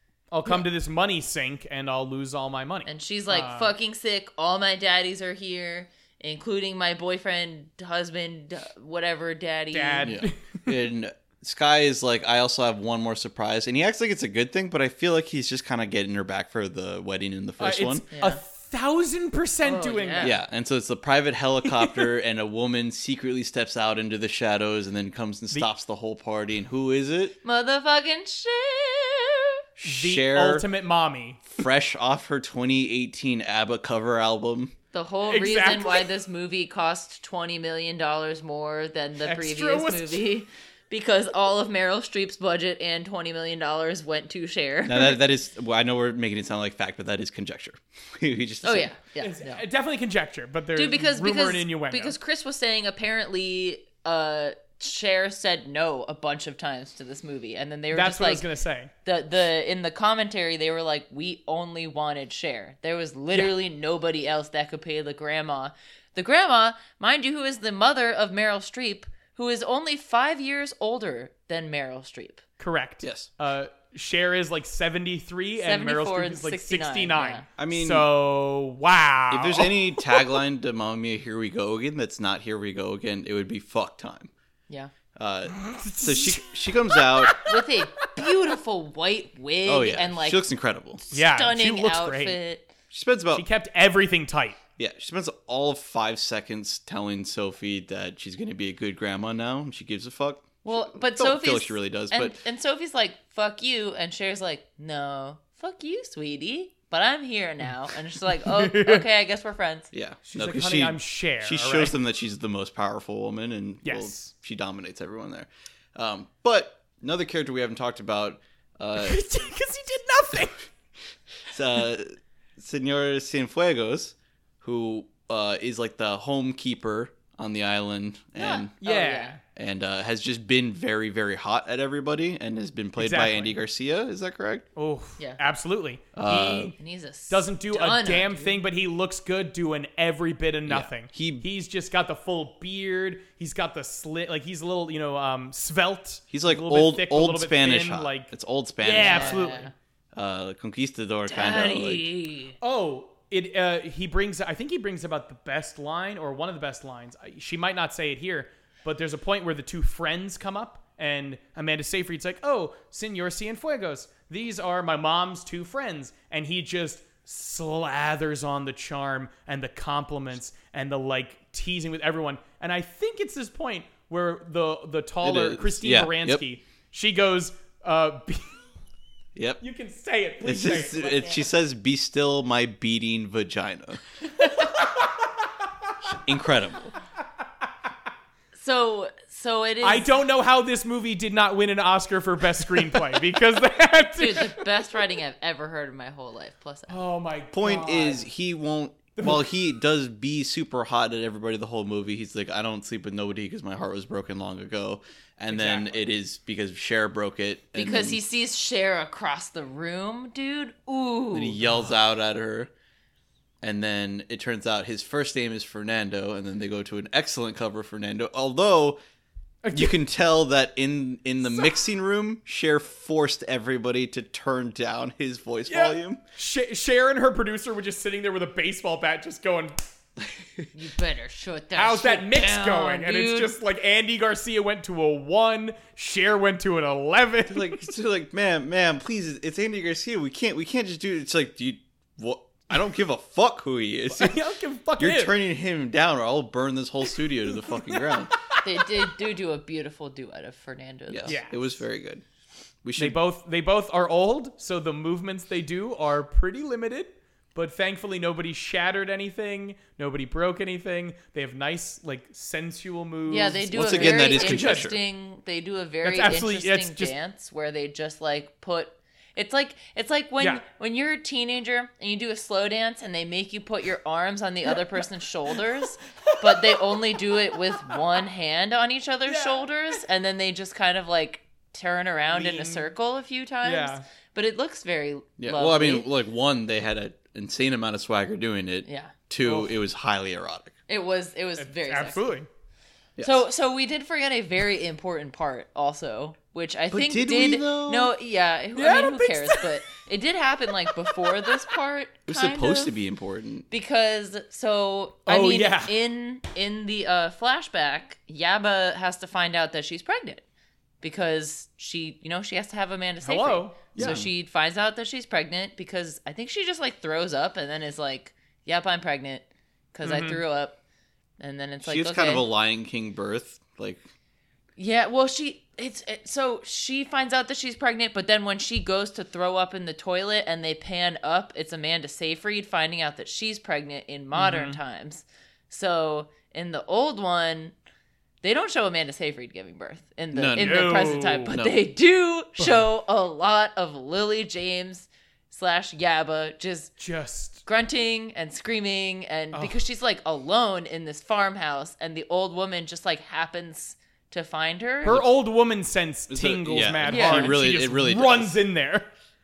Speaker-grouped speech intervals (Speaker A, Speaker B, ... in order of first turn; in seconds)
Speaker A: 0.3-3.7, 9.7-10.8, 17.6-20.3, 21.6-22.1, 29.8-31.5, 35.3-36.1, 39.2-40.3, 49.2-52.2, 57.9-58.9, 72.6-80.4, 85.5-87.7, 91.1-92.4, 93.3-94.6, 108.4-109.0, 110.3-112.0, 113.8-114.3, 119.0-120.7, 128.8-129.4, 133.0-133.6, 134.8-136.8, 137.3-149.7, 152.6-178.5, 179.6-181.4, 184.5-185.3, 189.8-194.7, 196.9-198.3, 199.2-199.4, 205.5-206.0, 211.6-211.9, 219.6-219.9, 225.7-229.8, 231.7-237.9, 244.1-245.3, 247.2-249.1, 251.3-251.6, 253.0-264.9, 266.0-267.1, 276.4-277.0, 279.3-279.7, 282.3-282.9, 283.6-284.1, 289.4-289.7, 291.6-292.5, 298.8-299.8, 300.9-301.7, 305.3-306.0, 313.2-314.2, 320.0-320.4, 334.3-334.8, 340.6-341.6, 342.6-342.9, 347.0-347.6, 349.5-349.8, 355.0-359.1
Speaker B: 2.9-10.1, 18.1-18.4, 19.6-20.4, 27.4-29.5, 34.9-45.2, 48.6-49.6, 50.7-58.5, 59.0-72.4, 75.6-77.5, 87.5-90.4, 91.1-92.7, 100.6-109.9, 128.4-129.4, 136.8-138.6, 149.0-149.7, 151.3-152.6, 188.5-190.1, 194.2-197.0, 207.7-211.6, 230.7-233.6, 248.6-251.4, 263.3-286.1, 288.9-289.1, 290.9-292.4, 293.2-302.9, 303.7-310.4, 311.0-320.8, 321.4-322.4, 324.8-337.7, 338.4-346.9, 347.6-355.2, 357.1-357.6
Speaker C: 10.0-18.0, 20.2-27.4, 29.8-30.7, 31.5-34.7, 44.9-48.9, 73.0-73.3, 77.6-78.1, 79.3-84.3, 85.2-87.4, 89.7-91.0, 92.9-93.5, 94.8-102.4, 109.9-119.2, 121.5-128.7, 129.6-134.6, 136.1-136.7, 140.7-141.4, 146.3-149.6, 150.1-152.1, 175.2-176.4, 179.3-179.6, 180.4-184.0, 186.0-186.9, 197.5-208.2, 211.3-212.7, 213.6-219.0, 219.7-226.2, 230.2-230.6, 237.5-244.4, 245.0-248.3, 251.1-252.2, 252.8-253.2, 263.7-265.0, 285.4-290.7, 293.2-293.4, 296.9-298.1, 302.3-303.7, 313.9-314.3, 321.8-324.0, 340.3-341.8, 356.3-358.6